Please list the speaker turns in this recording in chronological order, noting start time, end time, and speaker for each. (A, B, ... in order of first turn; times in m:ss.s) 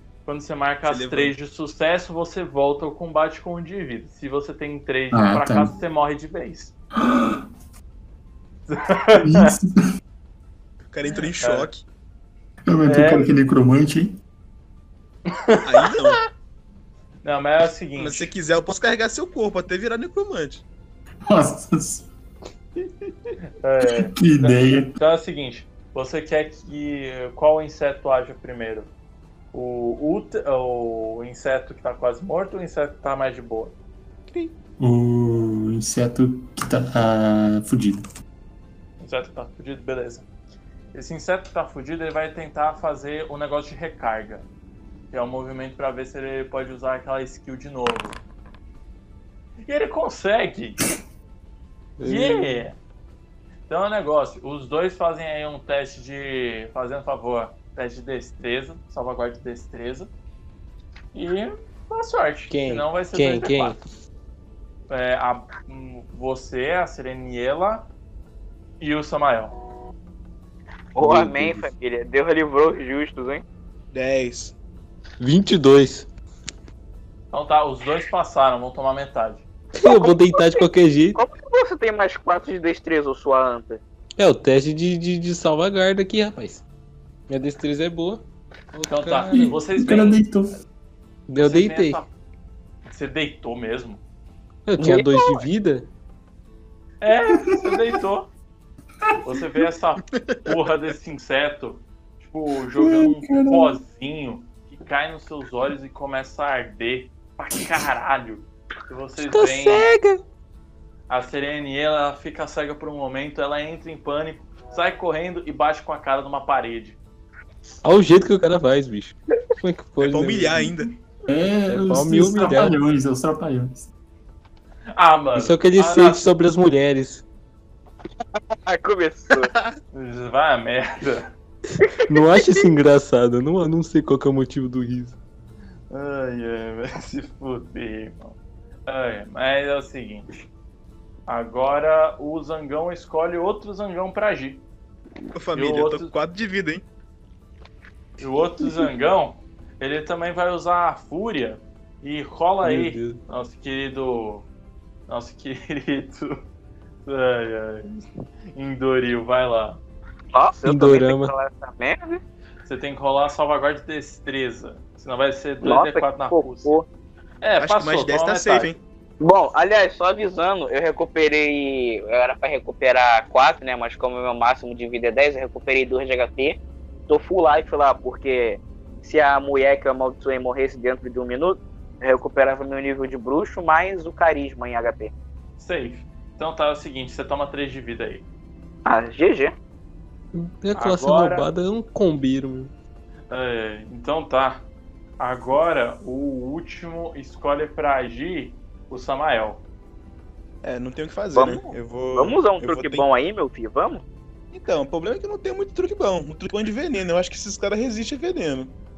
0:00.2-0:06.7 A
0:00.8-0:01.3 B
0:05.1-0:05.7 C
0:07.0-0:07.4 C
0:08.7-0:09.5 A
0:09.1-0:09.8 C
0:10.9-0:11.8 B
0:11.4-0:11.7 A
0:12.7-0:14.2 C
0:12.8-0:13.3 A
0:15.3-0:16.1 A
0:15.6-0:16.2 B
0:17.2-0:18.3 A
0:18.0-0:20.6 B
0:21.3-0:22.1 C
0:23.6-0:28.9 A
0:23.8-0:24.9 C
0:29.5-0:33.8 A
0:34.3-0:34.5 B
0:34.8-0:38.0 C
0:39.0-0:40.3 A
0:40.9-0:44.5 A
0:45.1-0:48.2 A
0:49.6-0:50.9 A
0:52.0-0:52.6 D
0:52.0-0:52.8 A
0:53.7-1:00.1 A
1:01.1-1:03.8 A
1:02.5-1:03.8 D
1:04.9-1:07.9 A
1:08.8-1:09.6 A
1:10.9-1:13.4 E
1:11.0-1:11.7 D
1:13.9-1:14.5 B
1:15.2-1:16.1 D
1:17.3-1:19.5 A
1:19.8-1:21.2 D
1:19.8-1:23.8 E
1:24.2-1:26.6 D
1:27.3-1:29.5 D
1:28.9-1:30.6 A
1:29.3-1:30.6 C
1:31.3-1:32.0 D
1:31.4-1:32.1 A
1:32.8-1:34.0 A
1:34.7-1:35.9 D
1:34.8-1:35.2 E
1:37.0-1:38.3 A
1:37.5-1:37.8 C
1:39.2-1:49.9 A
1:42.8-1:43.8 C
1:49.2-1:50.2 D
1:51.1-1:57.0 A
1:57.8-2:00.7 D
2:00.0-2:00.9 B
2:01.3-2:03.9 C
2:01.7-2:02.8 D
2:05.0-2:06.3 A
2:05.4-2:07.2 D
2:08.7-2:09.5 E
2:09.3-2:09.7 B
2:09.9-2:11.3 A
2:12.1-2:15.2 D
2:15.9-2:20.4 A
2:21.3-2:24.6 A
2:25.3-2:26.8 B
2:25.5-2:26.1 A
2:28.2-2:34.5 A
2:32.6-2:33.2 D
2:35.1-2:36.4 A
2:37.0-2:39.8 A
2:40.3-2:42.2 E
2:40.6-2:41.3 D
2:42.6-2:46.7 A
2:45.6-2:46.8 E
2:47.4-2:48.7 A
2:47.6-2:48.8 B
2:49.2-3:05.1 E
3:05.6-3:08.2 A
3:08.8-3:09.5 E
3:10.3-3:12.7 D
3:10.8-3:11.5 A
3:13.3-3:14.7 A
3:15.2-3:19.6 A
3:20.6-3:23.1 B
3:21.3-3:24.0 E
3:24.5-3:28.7 B